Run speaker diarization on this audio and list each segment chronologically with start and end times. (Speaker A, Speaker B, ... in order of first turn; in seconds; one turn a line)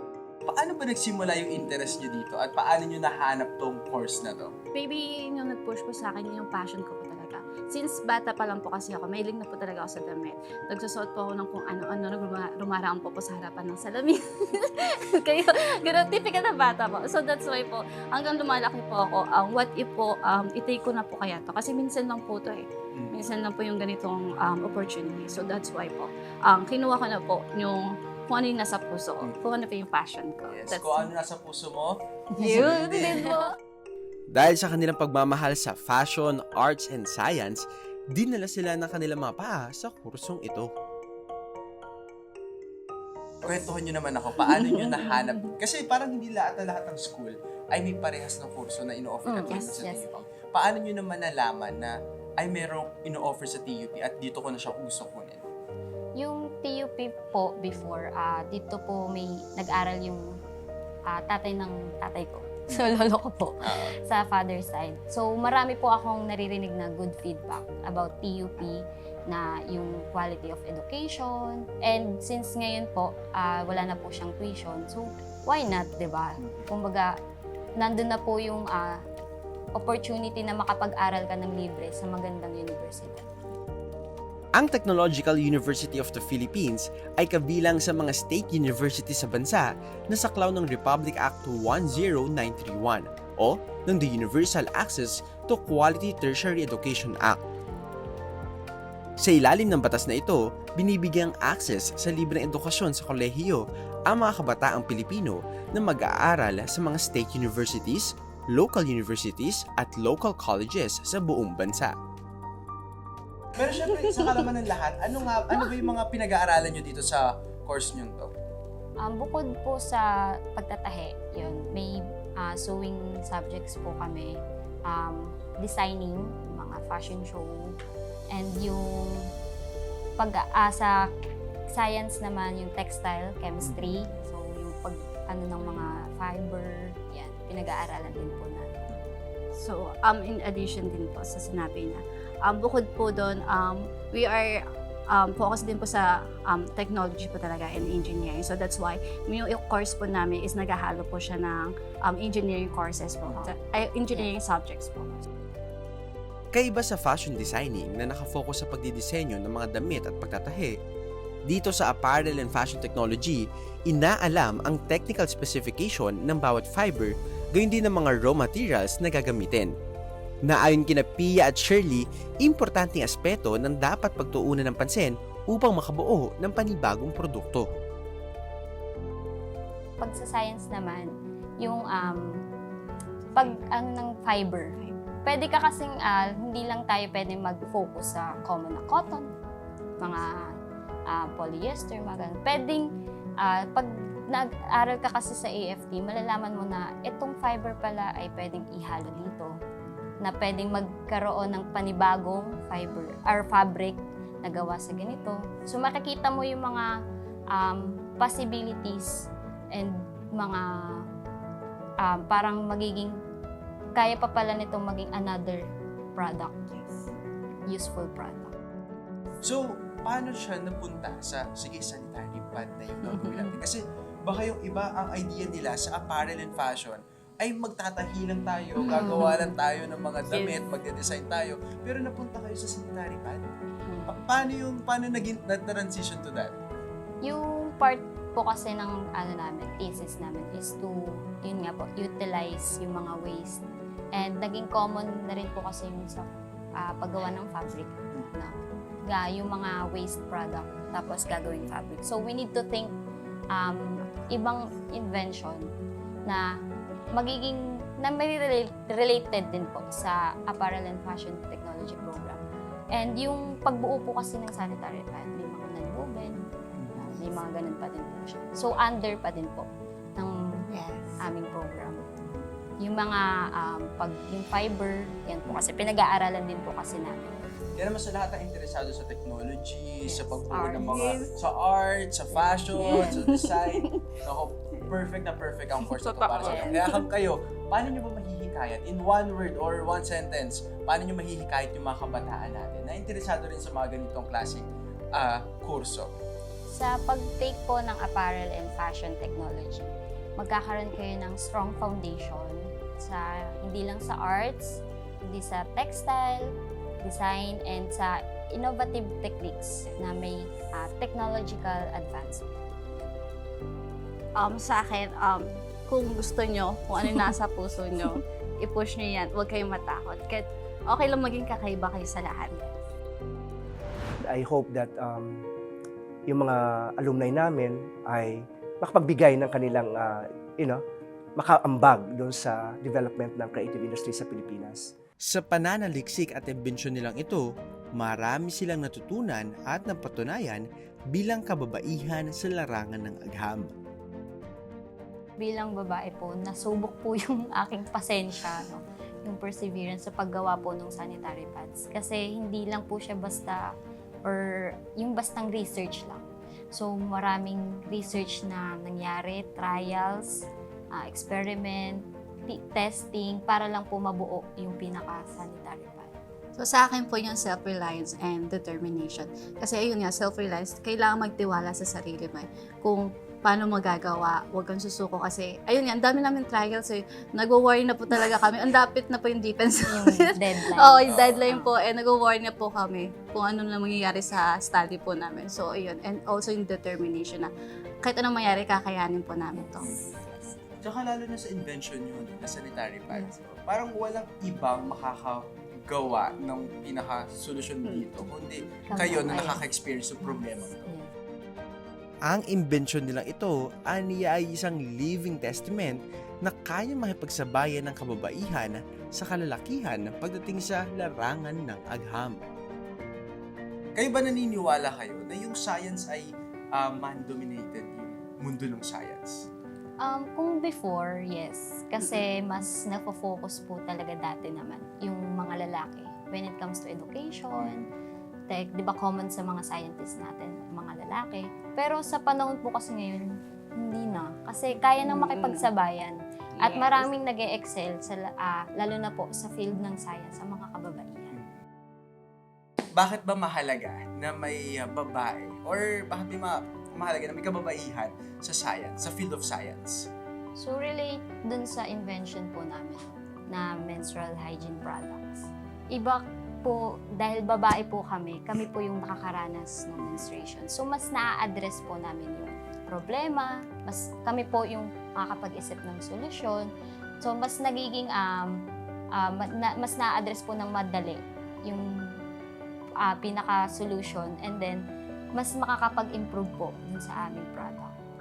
Speaker A: 0.5-4.5
Speaker B: 4.7-31.1
Speaker A: 22.9-23.2
Speaker A: 30.4-33.4
Speaker B: 32.3-33.5
Speaker C: 33.0-33.4
Speaker D: 34.3-40.7
Speaker A: 43.4-55.5
Speaker C: 49.2-50.0
Speaker C: 56.2-60.4
Speaker C: 61.1-77.2
Speaker A: 63.6-63.9
Speaker A: 76.4-76.7
Speaker C: 77.8-79.0
Speaker C: 79.8-83.3
Speaker D: 84.5-97.4
Speaker D: 99.2-111.9
Speaker A: 113.5-118.3
Speaker C: 119.0-127.7
Speaker C: 128.3-129.3
Speaker C: 130.2-131.1
Speaker C: 131.7-138.9
Speaker B: 139.5-155.2
Speaker D: 156.5-160.8
Speaker D: 161.5-169.7
Speaker D: 170.4-177.7
Speaker C: 180.0-182.4
Speaker C: 183.3-189.3
Speaker C: 190.0-190.5
Speaker C: 191.1-192.9
Speaker C: 193.4-199.6
Speaker C: 200.2-206.9
Speaker C: 207.5-211.1
Speaker C: 212.0-213.2
Speaker C: 213.9-215.6
Speaker C: 216.2-216.8
Speaker C: 217.7-218.5
Speaker A: 219.4-233.4
Speaker C: 228.8-229.5
Speaker A: 234.1-236.5
Speaker C: 237.2-243.6
Speaker C: 244.1-252.9
Speaker C: 253.5-255.6
Speaker C: 256.2-256.6
Speaker C: 257.1-262.4
Speaker C: 262.9-266.4
Speaker A: 266.8-267.2
Speaker C: 266.9-270.4
Speaker B: 270.7-271.2
Speaker C: 271.2-272.1
Speaker C: 272.8-277.4
Speaker A: 277.8-296.1
Speaker C: 280.1-281.3
Speaker B: 280.8-281.3
Speaker C: 282.3-283.2
Speaker B: 282.8-284.1
Speaker C: 286.2-286.8
Speaker B: 286.3-287.0
Speaker C: 296.7-313.1
Speaker B: 314.4-322.7
Speaker E: 324.2-325.5
Speaker E: 326.3-330.8
Speaker E: 331.4-334.9
Speaker D: 335.2-343.7
Speaker C: 345.4-353.7
Speaker C: 354.2-366.1
Speaker B: 366.6-387.5
Speaker C: 379.9-381.7
Speaker A: 381.1-381.5
Speaker B: 388.0-389.9
Speaker A: 390.8-400.9
Speaker C: 398.9-399.7
Speaker C: 400.2-401.1
Speaker D: 402.3-412.4
Speaker A: 413.9-419.5
Speaker C: 420.0-427.9
Speaker C: 428.5-441.4
Speaker B: 435.0-435.7
Speaker B: 436.6-437.1
Speaker A: 442.9-450.1
Speaker C: 450.6-466.7
Speaker A: 460.0-460.2
Speaker C: 467.2-468.6
Speaker C: 469.1-472.2
Speaker C: 473.0-474.8
Speaker C: 475.3-477.9